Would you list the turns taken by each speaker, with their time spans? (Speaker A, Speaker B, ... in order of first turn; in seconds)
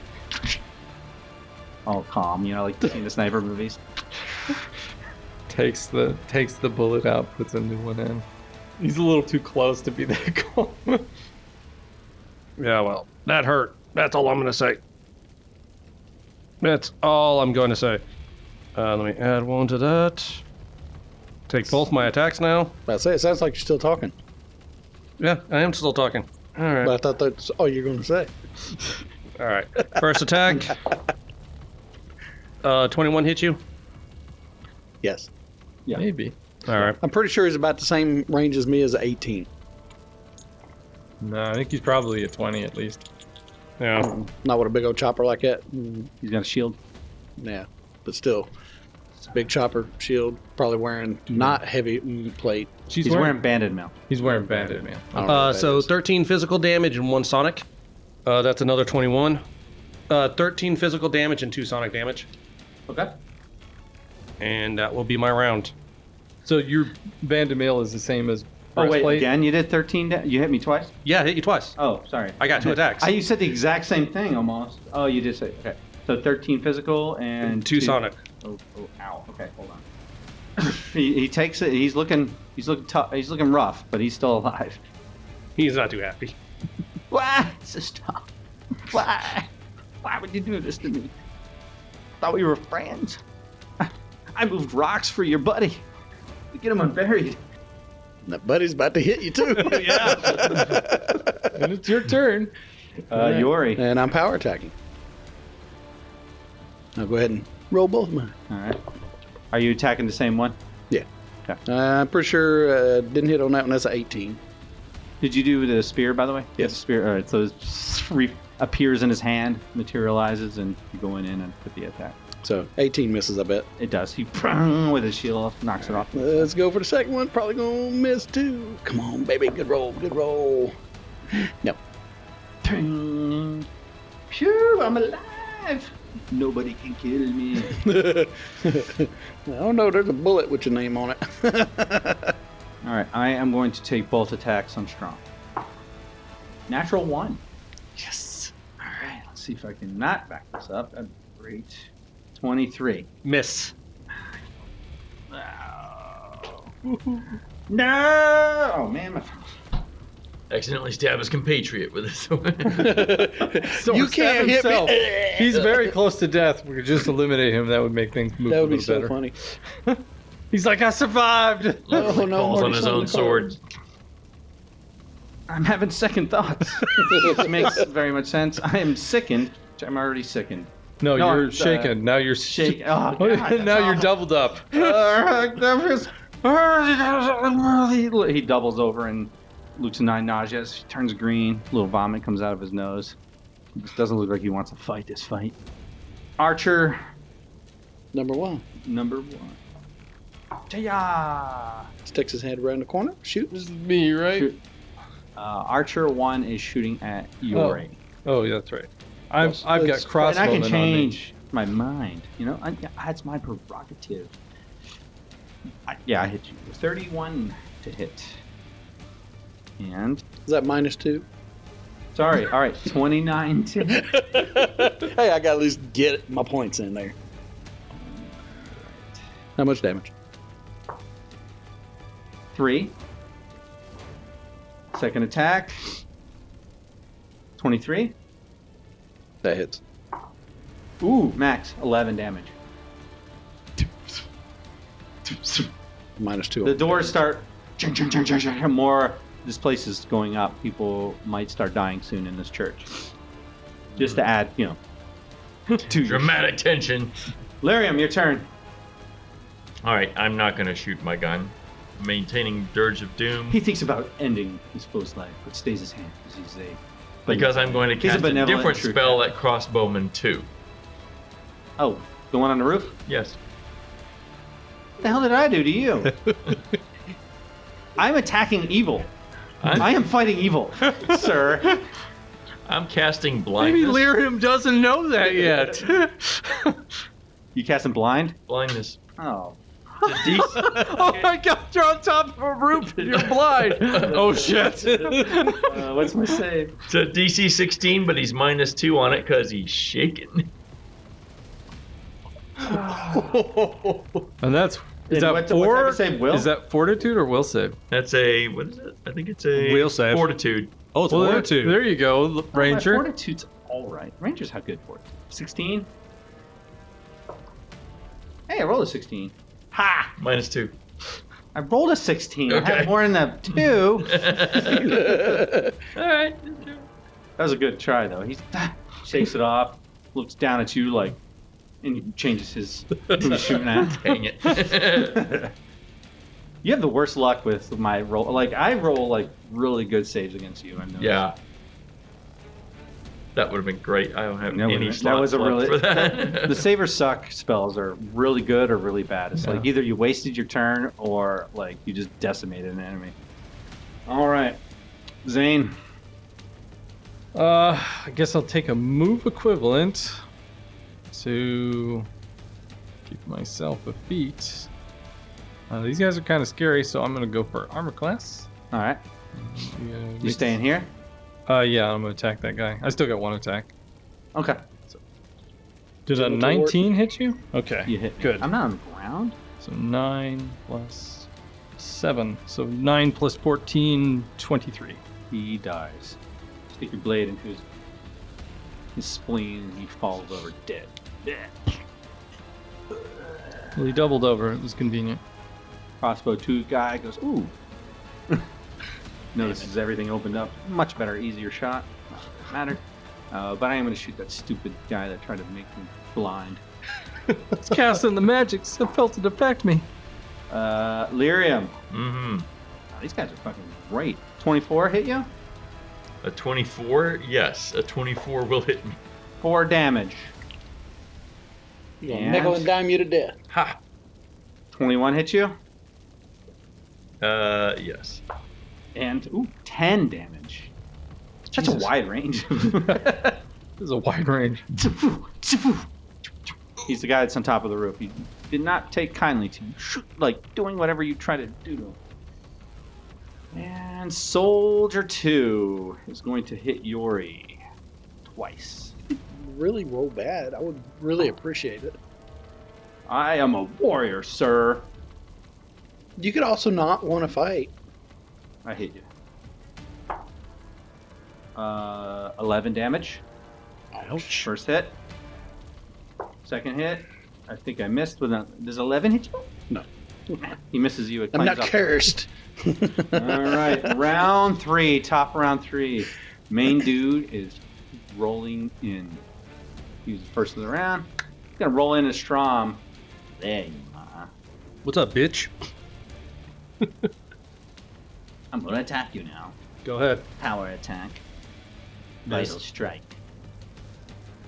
Speaker A: 1.9-3.8, 46.2-46.8, 53.0-54.9, 62.9-63.1, 68.8-70.9, 71.8-79.8, 80.6-84.8, 87.1-88.2, 88.8-89.5, 90.0-91.1, 92.2-93.2, 93.8-95.8, 96.5-97.4, 103.1-103.8, 108.5-108.8, 109.5-110.6, 115.2-122.2, 123.8-126.5, 132.6-133.7, 134.3-137.8, 142.8-145.2, 146.7-147.4, 148.8-153.1, 155.3-156.7, 157.7-159.5, 175.5-184.1, 184.7-193.2, 193.8-195.6, 196.4-197.0, 198.8-199.6, 200.7-201.9, 205.3-208.0, 210.2-214.3, 215.9-218.4, 219.8-220.2, 222.1-224.4, 227.9-229.2, 232.5-232.9, 234.9-235.9, 237.6-238.1, 241.0-242.5, 245.2-245.7, 246.6-253.0, 254.0-254.8, 255.7-256.4, 257.6-258.5, 263.5-269.2, 271.8-273.0, 275.0-276.2, 278.0-279.1, 279.7-281.9, 287.5-288.4, 289.2-291.2, 294.1-296.7, 302.6-303.4, 305.1-306.5, 312.5-315.9, 318.5-320.1, 321.5-324.3, 327.4-331.2, 331.8-334.1, 335.0-335.5, 336.6-341.2, 344.5-353.1, 354.1-354.6, 355.2-355.8, 368.7-369.0, 370.2-370.9, 374.3-374.6, 377.9-379.4, 385.3-386.2, 386.7-387.6, 388.9-391.7, 392.9-393.7, 396.0-397.5, 399.3-406.6, 410.5-411.7, 412.9-415.3, 419.4-420.3, 422.1-422.7, 424.7-425.6, 428.9-430.7, 431.5-433.3, 434.8-435.9, 436.8-442.0, 443.5-447.6, 448.2-448.9, 453.1-454.9, 458.6-459.0, 461.6-463.2, 464.2-465.0, 466.4-469.5, 470.4-471.9, 473.1-479.2, 480.1-482.8, 483.3-484.3, 488.5-489.6, 490.4-491.2, 492.2-493.1
Speaker B: 5.5-8.2, 8.8-11.1, 35.9-36.3, 41.2-43.0, 52.9-53.4, 54.1-55.4, 66.4-69.3, 101.5-102.5, 163.7-169.2, 169.8-172.2, 181.0-184.9, 203.5-204.5, 207.5-211.1, 283.6-286.8, 290.2-295.9, 304.4-307.8, 311.1-313.1, 357.3-360.2, 361.1-362.1, 363.1-364.7, 365.7-368.5, 369.4-370.6, 371.5-373.7, 376.1-377.9, 379.6-385.0, 393.8-395.2, 407.6-409.9, 432.8-434.6
Speaker C: 12.6-14.8, 16.6-18.0, 18.7-20.4, 21.5-22.7, 25.2-26.9, 29.4-30.8, 32.6-33.6, 36.6-37.0, 43.8-44.1, 55.2-57.6, 58.2-59.4, 60.1-62.3, 64.4-65.7, 71.0-71.8, 72.4-73.1, 77.4-78.2, 85.5-86.3, 99.7-100.5, 148.0-148.5, 153.2-153.7, 309.5-310.3, 310.9-311.8, 378.2-378.4, 484.8-485.5, 486.8-487.1, 489.8-490.3
Speaker D: 22.9-24.1, 26.8-28.3, 35.0-35.3, 37.0-39.5, 44.0-46.1, 47.4-48.5, 49.3-52.7, 55.1-55.9, 98.2-101.6, 103.2-104.7, 107.0-108.3, 111.7-114.4, 122.4-123.7, 126.0-130.7, 131.3-131.8, 137.7-142.3, 162.6-165.9, 168.5-169.3, 171.9-173.5, 198.1-198.6, 202.1-203.6, 209.4-210.1, 220.4-221.2, 223.9-227.2, 229.6-230.1, 239.4-239.8, 246.2-247.1, 324.7-325.7, 376.1-376.9, 422.0-423.4, 449.1-452.0, 456.2-457.7, 469.7-470.4, 471.3-473.9
Speaker E: 160.5-163.2, 171.9-173.6, 255.9-257.1, 259.8-263.6, 267.3-270.5, 273.1-273.4, 279.6-279.9, 282.6-284.1, 288.5-289.0, 290.0-291.0, 293.0-294.6, 296.9-300.5, 307.9-310.8, 320.2-320.8, 322.5-325.4, 325.9-326.8, 333.2-335.3, 341.0-341.4, 343.3-346.6, 411.9-412.5, 416.2-419.0, 427.2-428.2